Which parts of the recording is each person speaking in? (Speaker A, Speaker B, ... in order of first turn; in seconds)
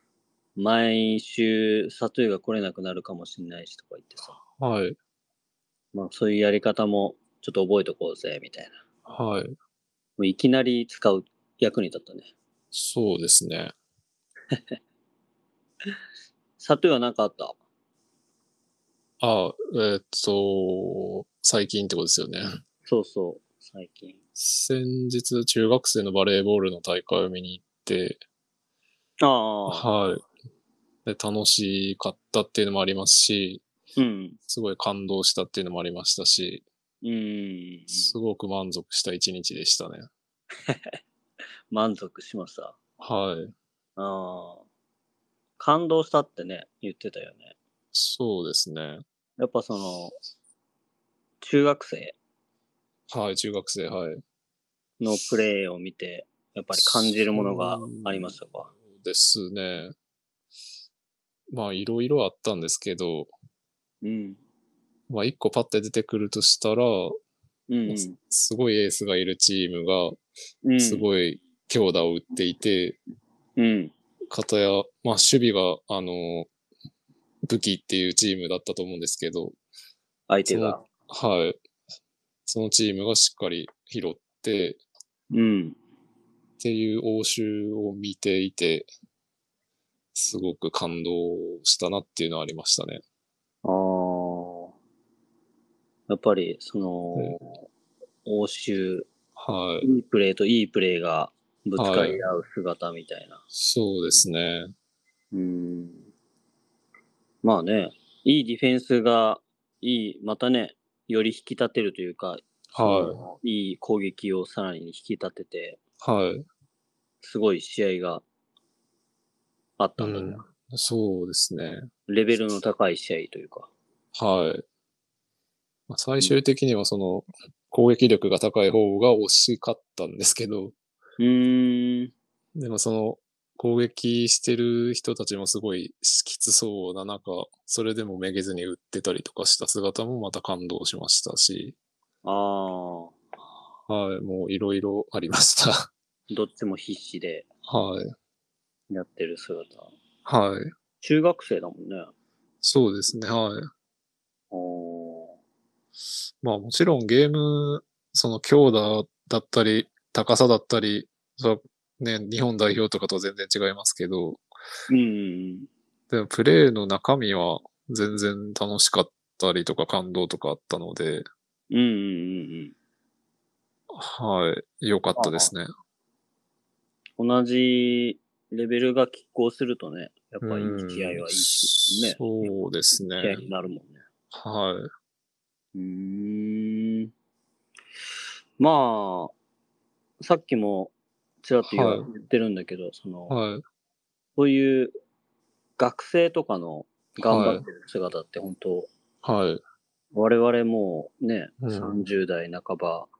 Speaker A: 0.6-4.4, 5.9-8.8, 10.2-12.3, 14.5-14.8, 16.6-17.6, 22.9-24.2, 29.2-29.9, 34.0-34.4, 37.0-38.1, 40.7-41.0, 41.7-42.8, 44.0-44.6, 45.6-47.5, 49.4-50.2, 51.4-52.2, 55.0-58.7, 64.0-64.4, 67.7-68.2, 70.7-71.1, 73.6-73.9, 80.3-80.8, 85.3-85.8, 93.6-94.7, 96.1-97.7, 98.2-99.1, 99.8-103.4, 105.3-106.1, 107.4-115.8, 117.2-118.2, 119.8-120.5, 122.1-123.7, 131.2-132.1, 142.2-143.2, 146.3-147.5, 148.9-149.9, 151.0-152.1, 154.5-155.4, 164.9-165.7, 171.7-172.8, 175.2-175.5, 177.2-182.5, 183.2-184.0, 185.8-187.1, 188.6-189.3, 190.2-193.3, 194.4-195.0, 195.8-198.9, 200.1-203.1
Speaker B: 4.5-5.0, 9.1-9.6, 12.7-13.7, 19.2-22.4, 24.4-28.2, 29.7-30.2, 31.1-33.6, 34.5-36.6, 37.9-40.1, 43.0-43.5, 47.9-49.0, 53.1-54.2, 56.7-59.9, 61.5-63.3, 65.1-67.2, 67.9-70.2, 70.8-73.0, 74.3-76.5, 77.5-79.6, 80.5-81.6, 82.5-84.8, 86.6-88.9, 90.2-93.0, 99.4-99.9, 101.8-102.2, 103.5-104.7, 112.7-113.2, 116.0-116.5, 120.0-121.9, 124.2-124.6, 125.9-130.8, 132.6-141.8, 143.9-145.9, 147.7-148.1, 150.2-150.7, 152.6-153.7, 156.4-164.4, 166.1-171.3, 173.9-175.7, 180.4-183.5, 184.3-184.9, 191.6-192.1, 193.3-193.6, 197.2-197.6, 199.2-199.6, 201.6-202.0